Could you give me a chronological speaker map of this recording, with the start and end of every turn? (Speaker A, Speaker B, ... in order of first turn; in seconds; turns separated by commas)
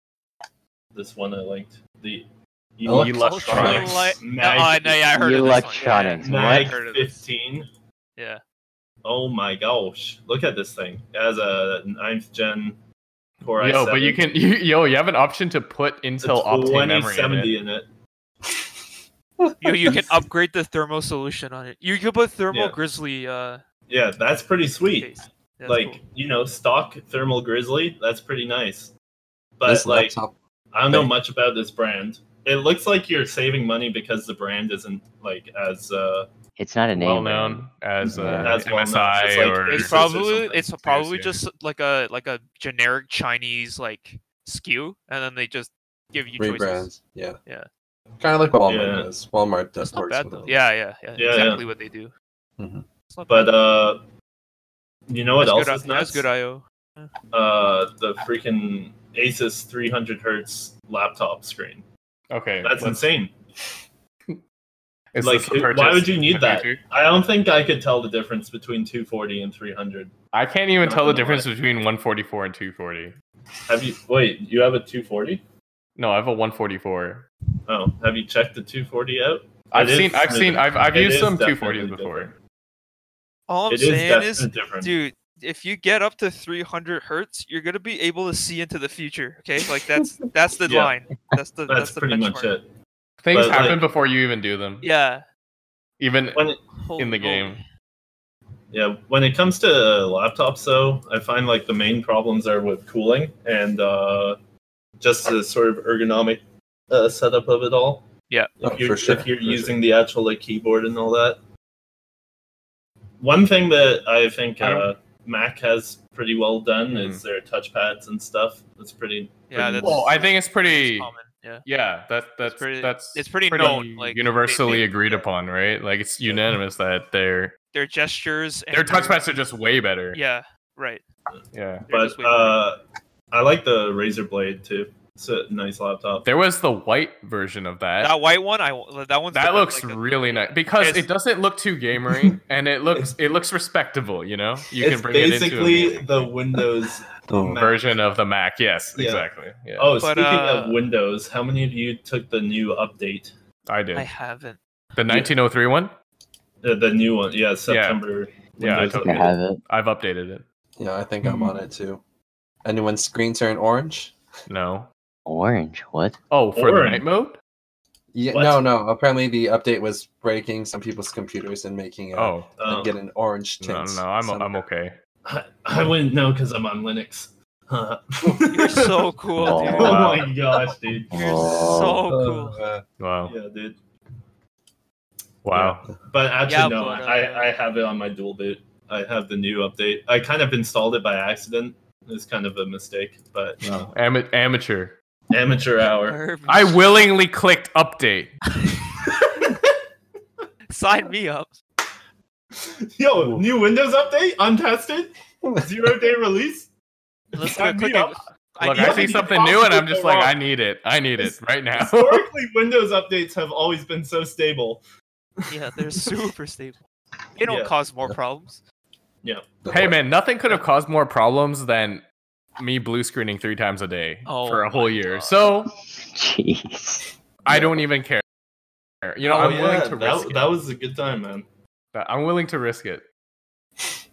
Speaker A: 0.9-2.3, Speaker A: 2.8-5.4, Speaker B: 2.9-3.9, Speaker C: 2.9-4.2, Speaker D: 3.1-7.1, Speaker E: 5.2-6.7, Speaker A: 6.2-7.7, Speaker D: 8.2-8.4, Speaker A: 9.0-12.8, Speaker A: 13.4-14.2, Speaker C: 13.6-17.5, Speaker A: 16.2-17.9, Speaker B: 19.4-20.0, Speaker D: 19.6-23.6, Speaker A: 22.5-22.8, Speaker A: 23.9-25.1, Speaker D: 24.9-26.0, Speaker A: 25.6-28.9, Speaker A: 29.6-30.1, Speaker B: 29.6-30.4, Speaker A: 30.7-36.3, Speaker E: 36.6-38.6, Speaker C: 36.9-40.0, Speaker B: 38.1-38.5, Speaker A: 38.4-40.6, Speaker D: 39.7-46.9, Speaker C: 40.8-41.4, Speaker B: 46.4-47.4, Speaker B: 48.2-50.6, Speaker A: 48.7-49.1, Speaker D: 49.8-52.1, Speaker A: 51.2-51.6, Speaker B: 52.6-52.9, Speaker D: 53.1-53.5, Speaker A: 53.3-54.0, Speaker A: 55.1-56.3, Speaker D: 55.4-57.1, Speaker A: 57.3-61.9, Speaker C: 62.3-63.0, Speaker A: 62.6-63.3, Speaker C: 65.1-66.8, Speaker A: 65.2-70.1, Speaker C: 70.3-73.1, Speaker A: 70.8-71.5, Speaker A: 73.7-75.4, Speaker C: 76.0-77.3, Speaker A: 77.7-82.4, Speaker C: 79.7-82.3, Speaker D: 83.5-92.5, Speaker A: 83.7-84.9, Speaker A: 90.7-90.9, Speaker A: 91.7-92.7, Speaker C: 93.2-94.9, Speaker A: 93.3-93.8, Speaker D: 94.8-95.2, Speaker C: 96.0-97.6, Speaker A: 96.3-96.6, Speaker D: 96.8-97.6, Speaker A: 98.7-104.4, Speaker A: 105.0-108.1, Speaker A: 108.6-111.4, Speaker B: 108.6-109.8, Speaker A: 113.2-120.0, Speaker C: 114.6-114.9, Speaker C: 116.9-117.2, Speaker D: 119.5-121.7, Speaker C: 119.6-121.1, Speaker C: 121.6-127.5, Speaker D: 122.4-125.3, Speaker D: 127.7-129.2, Speaker C: 128.7-130.2, Speaker D: 130.1-131.0, Speaker A: 131.3-132.8, Speaker C: 131.5-131.9, Speaker D: 131.9-132.6, Speaker A: 133.3-136.3, Speaker C: 136.2-138.1, Speaker D: 138.0-141.1, Speaker C: 139.3-146.3, Speaker A: 144.8-147.8, Speaker B: 147.3-147.6, Speaker C: 147.6-149.9, Speaker A: 148.9-149.3, Speaker A: 149.8-153.3, Speaker D: 150.0-150.8, Speaker C: 153.7-154.1, Speaker D: 153.9-154.6, Speaker C: 154.9-155.9, Speaker A: 156.6-159.3, Speaker C: 157.7-158.0, Speaker C: 158.6-160.4, Speaker E: 158.8-159.6, Speaker B: 160.8-162.0, Speaker A: 161.2-161.5, Speaker B: 162.6-164.1, Speaker C: 164.5-164.9, Speaker E: 165.3-166.2, Speaker C: 166.3-167.4, Speaker A: 166.6-167.0, Speaker B: 168.1-174.6, Speaker A: 168.3-168.6, Speaker C: 172.1-172.5, Speaker A: 172.6-172.9, Speaker C: 173.6-174.9, Speaker A: 175.2-181.7, Speaker D: 178.5-180.3, Speaker E: 179.4-180.0, Speaker C: 179.8-180.3, Speaker E: 181.1-182.0, Speaker D: 181.1-182.6, Speaker B: 182.1-182.8, Speaker C: 183.0-183.3, Speaker A: 183.3-183.8, Speaker C: 185.4-185.8, Speaker A: 185.5-193.9, Speaker D: 186.4-187.5, Speaker C: 193.6-194.9, Speaker A: 195.3-196.2, Speaker D: 196.1-196.9, Speaker C: 196.5-198.3, Speaker A: 199.0-199.8, Speaker D: 200.7-201.5, Speaker A: 202.5-206.7, Speaker A: 207.3-210.4, Speaker D: 207.3-209.6, Speaker C: 208.6-212.3, Speaker A: 211.2-214.8, Speaker A: 215.4-216.2, Speaker D: 215.5-216.8, Speaker D: 217.4-218.6, Speaker A: 217.4-217.8, Speaker A: 219.2-219.5, Speaker B: 219.6-220.0, Speaker C: 219.7-222.0, Speaker C: 222.6-225.7, Speaker D: 224.2-225.4, Speaker E: 225.9-227.1, Speaker C: 227.4-228.2, Speaker B: 227.5-227.8, Speaker C: 229.0-230.4, Speaker A: 229.2-231.4, Speaker C: 231.9-233.0